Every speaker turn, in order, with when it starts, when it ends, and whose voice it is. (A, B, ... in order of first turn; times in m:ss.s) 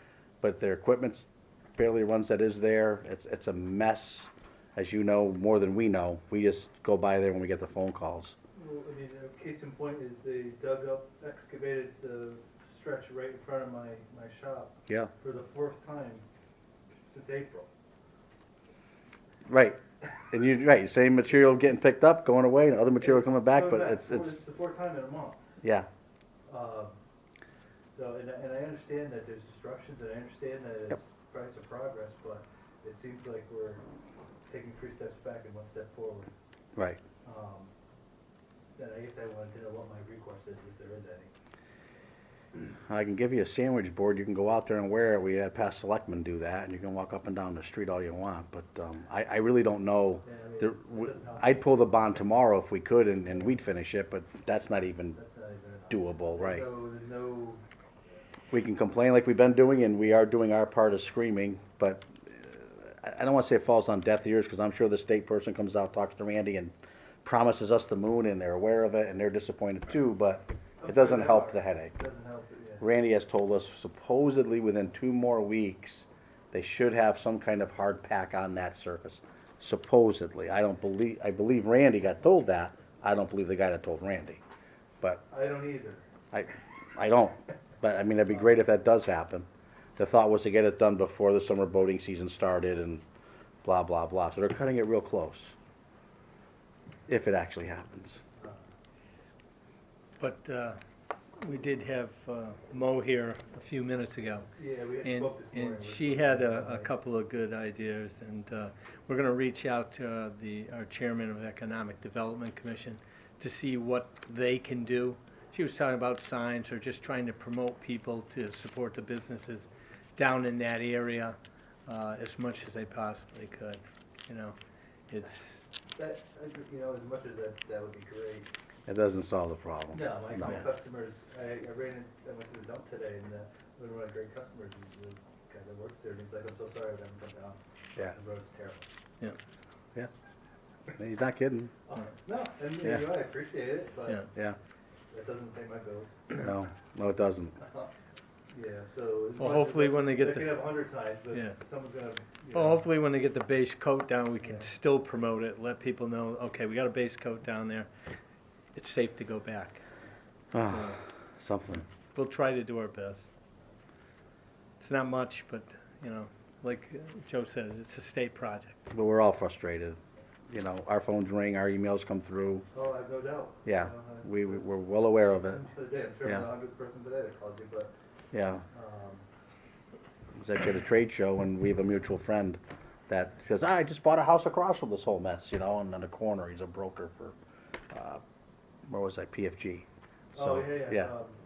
0:00.4-0:08.4 A
0:08.5-0:16.2 B
0:17.1-0:17.7 B
0:19.5-0:24.4 A
0:23.0-0:25.5 B
0:25.6-0:25.9 A
0:26.5-0:26.9 B
0:27.9-0:33.8 B
0:34.5-0:36.3 B
0:37.2-0:37.7 B
0:38.8-0:41.3 B
0:42.9-0:55.2 A
0:50.2-0:51.9 B
0:55.1-0:58.2 B
0:55.9-0:56.6 A
0:58.5-1:06.7 A
1:07.2-1:12.0 A
1:10.8-1:12.8 B
1:12.8-1:24.4 A
1:25.3-1:26.0 B
1:26.3-1:33.0 A
1:33.6-1:35.6 A
1:37.1-1:38.2 A
1:40.2-1:40.8 C
1:41.4-1:44.5 C
1:44.6-1:46.9 B
1:45.0-2:04.6 C
2:05.1-2:05.6 C
2:06.0-2:08.5 B
2:08.9-2:10.7 A
2:09.9-2:18.9 B
2:21.0-2:21.7 A
2:21.9-2:24.3 B
2:22.8-2:23.1 A
2:25.1-2:26.2 B
2:26.3-2:27.6 A
2:27.6-2:27.9 B
2:28.5-2:32.9 B
2:29.4-2:30.8 C
2:32.5-2:37.9 C
2:34.4-2:34.6 B
2:38.7-2:39.8 C
2:40.5-2:41.8 A
2:40.6-2:41.0 C
2:42.1-2:43.3 C
2:44.8-2:48.9 C
2:48.9-2:50.0 A
2:50.5-2:52.6 A
2:52.7-2:54.6 B
2:53.6-2:55.6 A
2:55.4-2:57.9 B
2:58.3-2:58.6 A
2:58.7-2:59.2 B
3:00.4-3:07.3 A
3:07.9-3:08.2 A
3:08.9-3:11.1 A
3:10.3-3:11.4 B